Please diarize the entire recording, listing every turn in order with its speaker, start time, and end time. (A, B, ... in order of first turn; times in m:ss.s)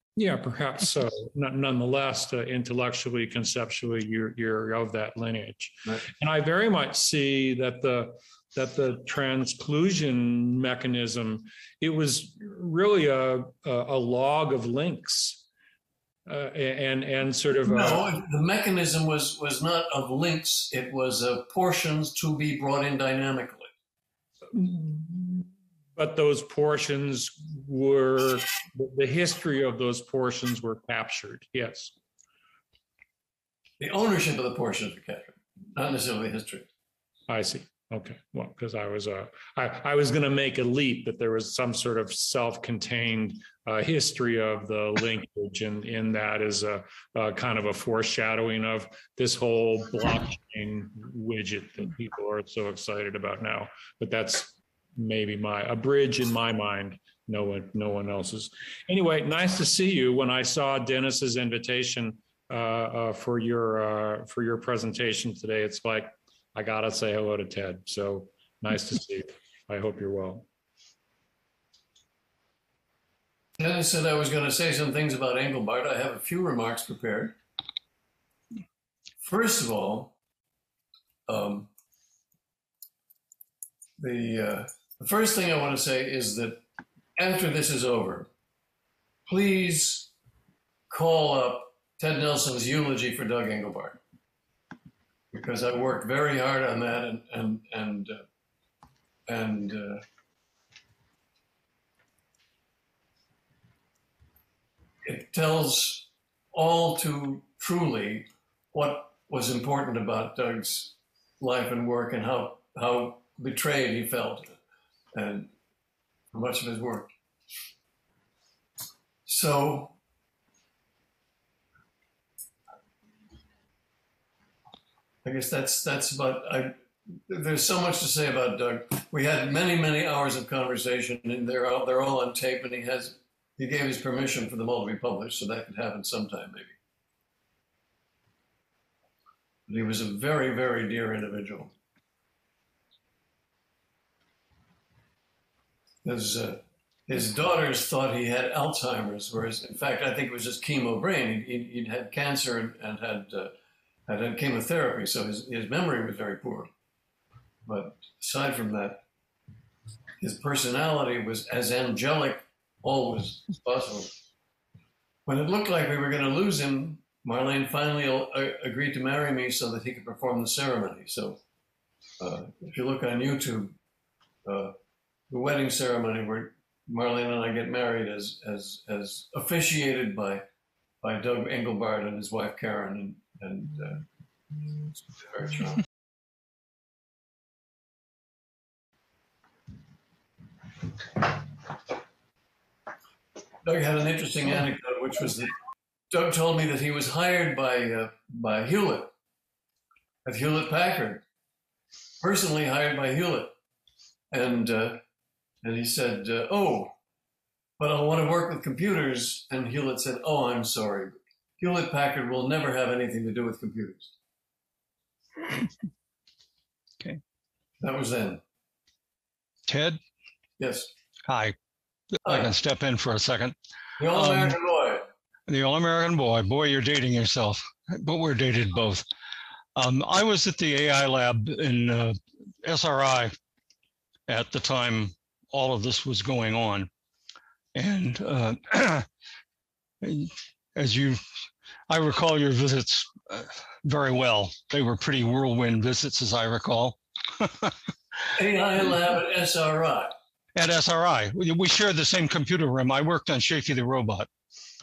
0:00.2-0:15.4 A
0:16.2-0:18.1 A
0:17.6-0:23.7 B
0:24.5-0:31.9 A
0:33.8-0:36.7 B
0:37.3-1:10.4 A
1:13.6-1:17.3 B
1:19.2-1:20.1 B
1:21.3-1:21.7 B
1:24.0-1:26.6 B
1:27.2-1:28.3 B
1:29.3-1:30.1 B
1:30.9-1:34.0 B
1:35.3-1:38.2 B
1:39.3-1:40.0 B
1:45.0-1:54.6 B
1:55.1-1:55.5 B
1:56.3-1:57.1 B
1:59.2-1:59.9 B
2:05.2-2:16.8 B
2:19.7-2:21.7 B
2:26.0-2:33.5 B
2:34.1-2:36.7 B
2:37.6-2:39.0 B
2:40.2-2:44.1 B
2:45.2-2:51.4 B
2:52.2-2:53.7 B
2:54.4-2:54.7 B
2:55.3-3:00.4 B
3:01.0-3:04.0 B
3:05.1-3:05.8 B
3:13.6-3:15.5 B
3:16.1-3:19.1 B
3:20.2-3:21.2 B
3:22.2-3:23.5 B
3:24.3-3:25.0 B
3:25.6-3:26.9 B
3:27.8-3:34.1 B
3:37.8-3:38.4 B
3:39.7-3:40.0 C
3:40.6-3:40.9 B
3:41.3-3:41.5 C
3:42.2-3:43.5 C
3:42.2-3:42.5 B
3:44.0-3:45.1 B
3:44.1-3:44.6 C
3:45.5-3:49.0 C
3:49.8-3:53.3 C
3:54.3-3:56.9 C
3:57.7-3:59.1 C
4:00.0-4:01.2 C
4:01.9-4:07.7 C
4:08.3-4:10.1 B
4:10.6-4:14.3 C